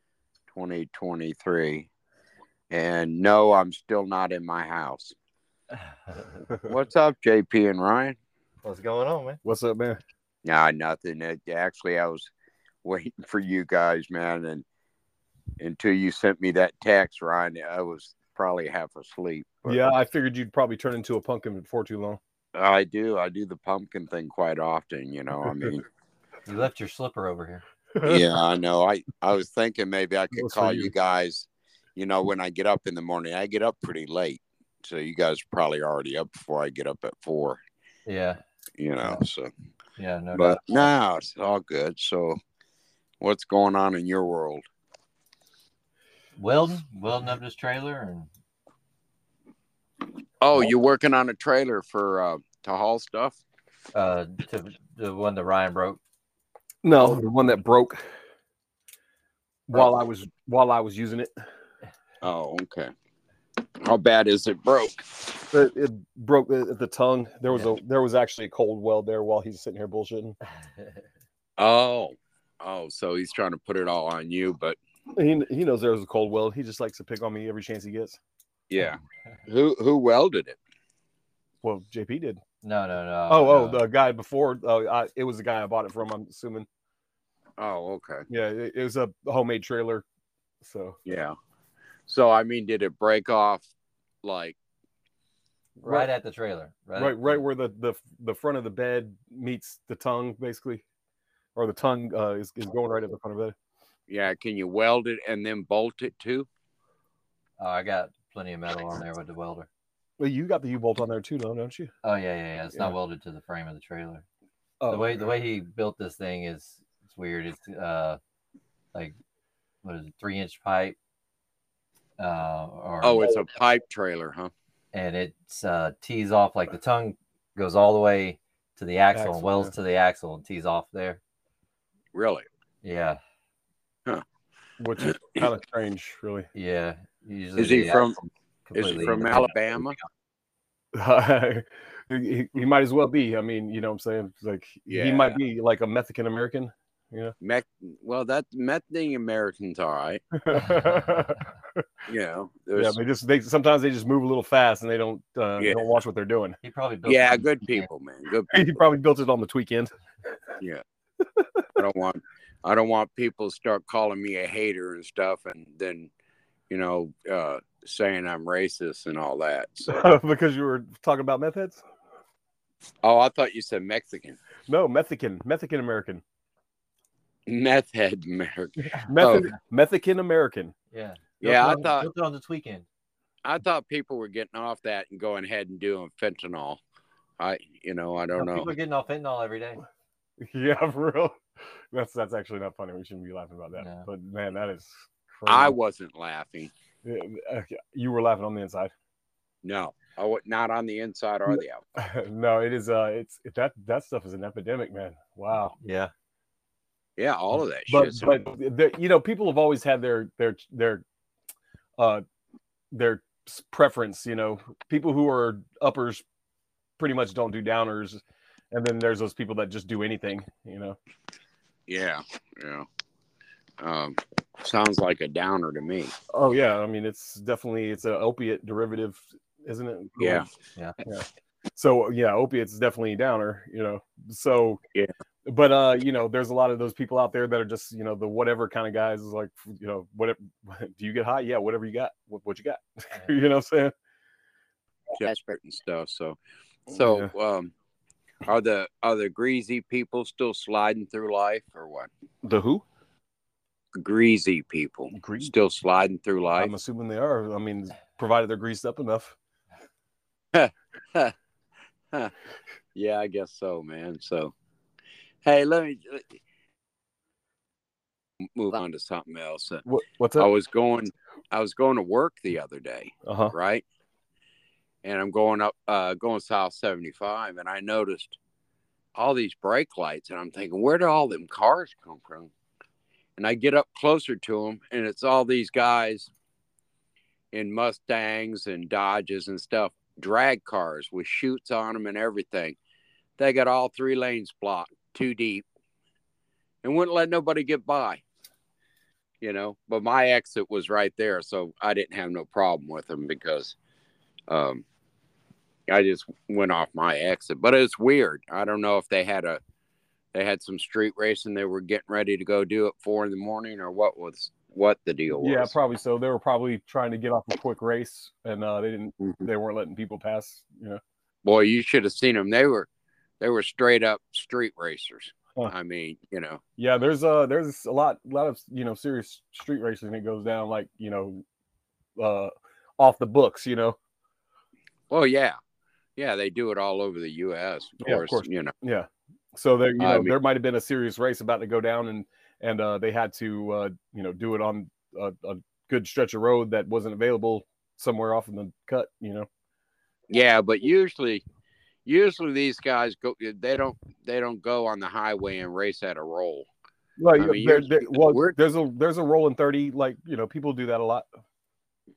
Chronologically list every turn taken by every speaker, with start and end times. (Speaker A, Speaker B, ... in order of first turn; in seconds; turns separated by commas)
Speaker A: 0.5-1.9, Speaker A: 2.7-5.2, Speaker A: 6.6-8.2, Speaker B: 8.6-9.4, Speaker C: 9.4-10.0, Speaker A: 10.4-12.3, Speaker A: 12.8-14.6, Speaker A: 15.6-19.9, Speaker C: 19.6-22.2, Speaker A: 22.5-25.9, Speaker B: 26.4-27.6, Speaker C: 27.9-28.2, Speaker A: 28.0-37.6, Speaker C: 30.3-30.9, Speaker B: 38.0-38.4, Speaker A: 38.8-39.5, Speaker B: 40.0-40.9, Speaker A: 40.3-42.4, Speaker A: 43.2-44.6, Speaker B: 46.4-48.3, Speaker A: 50.4-53.4, Speaker B: 53.9-56.0, Speaker C: 56.8-58.0, Speaker C: 59.7-61.3, Speaker A: 62.2-62.9, Speaker A: 63.8-65.3, Speaker C: 65.5-70.4, Speaker B: 70.8-71.0, Speaker A: 71.6-74.8, Speaker C: 75.1-78.2, Speaker A: 78.7-80.6, Speaker C: 81.6-82.4, Speaker B: 82.6-83.8, Speaker C: 83.3-86.7, Speaker A: 87.6-88.2, Speaker C: 88.3-90.0, Speaker C: 90.6-91.0, Speaker A: 91.0-91.3, Speaker A: 92.1-93.7, Speaker A: 94.2-94.5, Speaker C: 95.8-96.1, Speaker B: 95.8-97.4, Speaker C: 96.9-100.8, Speaker C: 101.5-103.5, Speaker A: 104.1-106.5, Speaker B: 107.6-109.7, Speaker C: 110.2-111.9, Speaker B: 112.0-114.2, Speaker C: 114.8-115.3, Speaker B: 114.9-118.2, Speaker B: 119.8-121.0, Speaker B: 122.2-123.2, Speaker A: 123.0-124.5, Speaker B: 124.9-131.2, Speaker C: 129.1-129.7, Speaker A: 132.1-132.4, Speaker B: 132.8-133.2, Speaker C: 134.8-136.5, Speaker A: 135.0-135.4, Speaker B: 136.5-139.5, Speaker A: 137.6-138.2, Speaker A: 138.7-139.9, Speaker C: 140.9-147.3, Speaker A: 144.9-145.4, Speaker A: 147.4-150.2, Speaker C: 150.3-151.8, Speaker A: 152.1-153.0, Speaker C: 152.7-156.6, Speaker B: 156.6-157.9, Speaker A: 157.1-158.7, Speaker C: 158.5-159.9, Speaker C: 161.2-161.6, Speaker A: 161.7-166.1, Speaker A: 166.7-169.9, Speaker C: 169.9-171.8, Speaker A: 173.0-174.4, Speaker C: 174.7-176.2, Speaker A: 177.5-179.5, Speaker C: 179.0-180.7, Speaker B: 180.9-182.8, Speaker A: 181.4-182.1, Speaker C: 181.5-181.8, Speaker A: 183.4-186.8, Speaker A: 187.4-188.7, Speaker B: 188.3-189.8, Speaker C: 190.4-191.4, Speaker C: 191.9-195.7, Speaker B: 193.8-194.1, Speaker A: 195.4-196.7, Speaker C: 197.0-198.9, Speaker A: 199.6-201.8, Speaker C: 201.5-205.7, Speaker B: 205.8-206.1, Speaker A: 207.2-208.3, Speaker C: 207.9-211.0, Speaker C: 212.0-212.2, Speaker C: 212.9-216.2, Speaker C: 217.0-221.0, Speaker A: 221.9-222.9, Speaker A: 223.8-226.1, Speaker C: 226.3-230.5, Speaker A: 230.2-230.5, Speaker C: 231.0-234.8, Speaker C: 235.4-243.9, Speaker A: 245.2-247.7, Speaker C: 246.9-247.3, Speaker A: 248.4-252.1, Speaker C: 252.4-252.8, Speaker A: 253.9-256.7, Speaker C: 255.1-255.5, Speaker C: 256.6-259.3, Speaker A: 260.5-261.3, Speaker A: 262.9-264.5, Speaker A: 265.4-266.3, Speaker A: 268.6-269.8, Speaker C: 269.8-270.5, Speaker A: 270.4-273.8, Speaker C: 273.2-273.5, Speaker A: 275.0-278.4, Speaker A: 279.1-282.5, Speaker A: 283.4-286.3, Speaker A: 287.5-292.8, Speaker A: 293.4-295.6, Speaker A: 296.8-298.2, Speaker A: 299.4-303.7, Speaker A: 304.5-304.8, Speaker A: 305.9-309.6, Speaker A: 310.3-315.7, Speaker C: 315.3-321.0, Speaker A: 321.4-322.9, Speaker A: 323.4-326.6, Speaker C: 326.8-331.4, Speaker C: 332.2-334.0, Speaker A: 335.1-335.6, Speaker A: 336.2-338.7, Speaker C: 338.0-349.5, Speaker A: 340.0-340.3, Speaker A: 350.3-351.4, Speaker A: 352.1-356.7, Speaker C: 357.2-361.3, Speaker A: 357.4-358.6